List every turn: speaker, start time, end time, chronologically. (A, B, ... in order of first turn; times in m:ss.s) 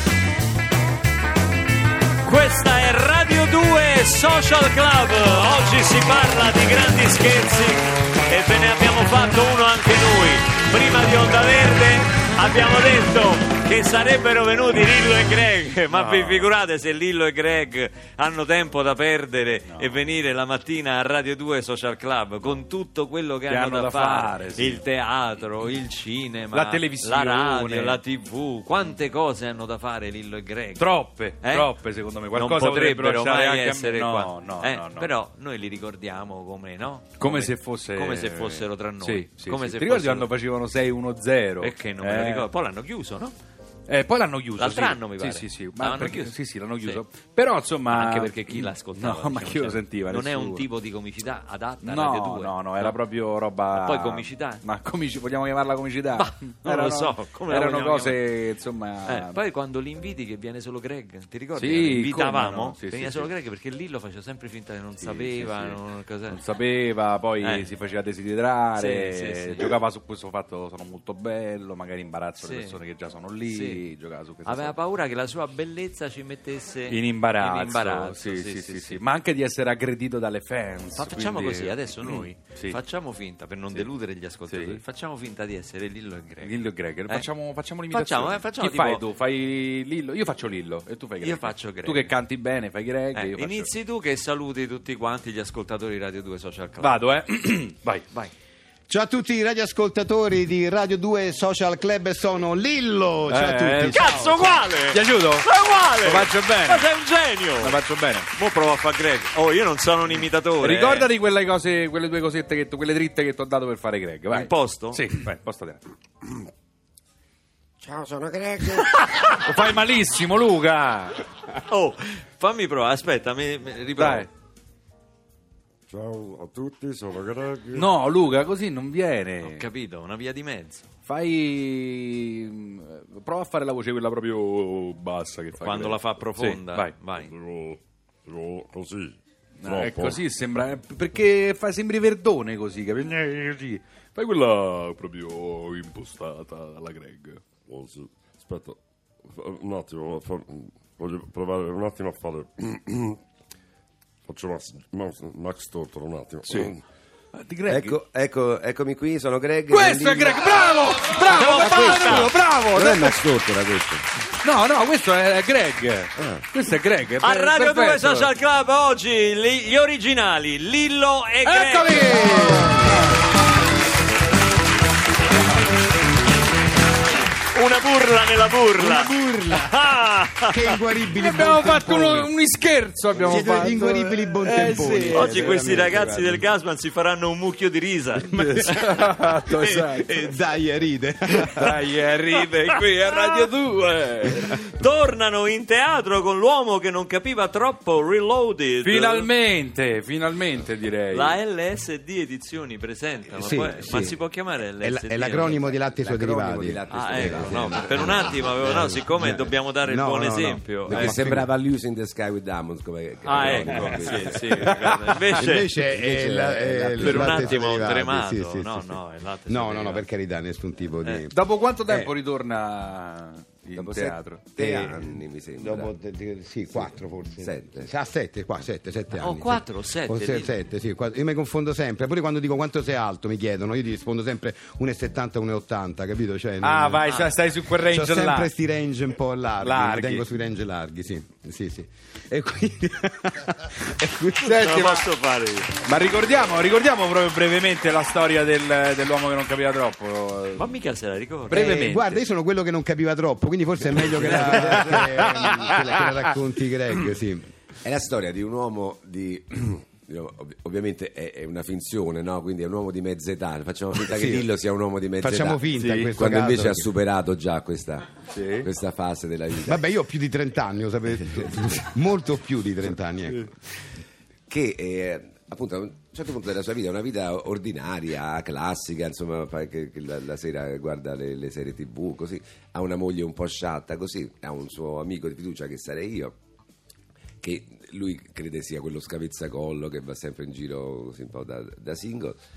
0:02.2-0:30.9 A
0:15.9-0:16.5 B
0:19.7-0:20.0 B
0:23.5-0:24.8 B
0:26.5-0:28.0 B
0:30.8-0:35.1 B
0:31.4-0:31.7 A
0:32.4-0:40.3 A
0:37.2-0:42.5 B
0:41.6-0:43.4 A
0:43.9-0:50.6 B
0:44.6-0:47.0 A
0:47.9-0:53.0 A
0:51.8-0:59.4 B
0:53.7-0:54.6 A
0:56.2-0:58.2 A
0:59.1-1:06.4 A
1:01.6-1:03.3 B
1:05.0-1:14.8 B
1:07.4-1:07.7 A
1:08.8-1:09.7 A
1:12.4-1:12.8 A
1:13.5-1:13.8 A
1:14.4-1:19.0 A
1:16.9-1:22.8 B
1:21.0-1:27.2 A
1:24.5-1:24.8 B
1:26.4-1:33.7 B
1:27.9-1:29.0 A
1:31.2-1:32.1 A
1:33.1-1:37.0 A
1:36.8-1:38.0 B
1:38.9-1:44.6 C
1:43.3-1:44.1 B
1:43.9-1:47.8 A
1:44.8-1:46.9 B
1:47.6-1:48.3 B
1:48.3-1:51.1 A
1:50.6-1:55.8 B
1:54.3-1:55.1 A
1:57.8-1:58.9 D
1:59.4-2:01.2 B
2:01.7-2:04.3 A
2:04.0-2:04.3 B
2:05.9-2:08.1 E
2:07.7-2:09.6 B
2:09.4-2:10.8 A
2:11.1-2:17.1 B
2:15.6-2:17.3 A
2:17.2-2:20.2 E
2:19.6-2:27.4 B
2:27.7-2:33.2 E
2:34.3-2:36.8 E
2:36.5-2:36.7 B
2:37.3-2:38.0 B
2:37.7-2:40.7 D
2:39.7-2:43.2 B
2:41.2-2:42.3 A
2:41.4-2:44.0 D
2:44.4-2:48.3 B
2:46.2-2:46.5 D
2:47.2-2:52.3 A
2:51.4-2:53.1 B
2:57.5-3:00.8 A
2:58.8-2:59.7 C
3:00.5-3:02.3 C
3:01.2-3:05.8 B
3:03.2-3:06.4 C
3:05.1-3:08.3 A
3:08.2-3:10.2 B
3:08.3-3:11.8 C
3:09.6-3:09.9 A
3:11.5-3:14.4 B
3:12.3-3:13.5 A
3:14.2-3:19.3 A
3:18.8-3:21.3 B
3:21.1-3:25.6 A
3:23.4-3:24.2 C
3:24.8-3:31.5 C
3:25.4-3:28.9 D
3:26.9-3:31.2 A
3:30.9-3:38.0 D
3:33.2-3:35.7 A
3:34.6-3:41.3 C
3:37.0-3:40.1 A
3:41.3-3:44.7 B
3:43.7-3:45.9 D
3:44.6-3:57.0 C
3:46.6-3:47.9 D
3:49.1-3:50.5 A
3:56.6-3:58.5 B
3:57.0-3:57.3 A
3:57.9-4:04.8 C
3:59.6-4:00.2 B
4:04.5-4:05.0 B
4:04.5-4:05.7 A
4:05.8-4:10.7 B
4:10.6-4:11.7 A
4:11.5-4:12.2 B
4:11.5-4:17.4 C
4:14.1-4:16.1 B
4:14.3-4:15.0 D
4:17.8-4:29.8 D
4:24.1-4:24.5 C
4:25.2-4:26.9 C
4:25.7-4:26.1 B
4:28.3-4:28.7 B
4:29.6-4:33.6 C
4:34.5-4:46.3 D
4:47.4-4:52.4 D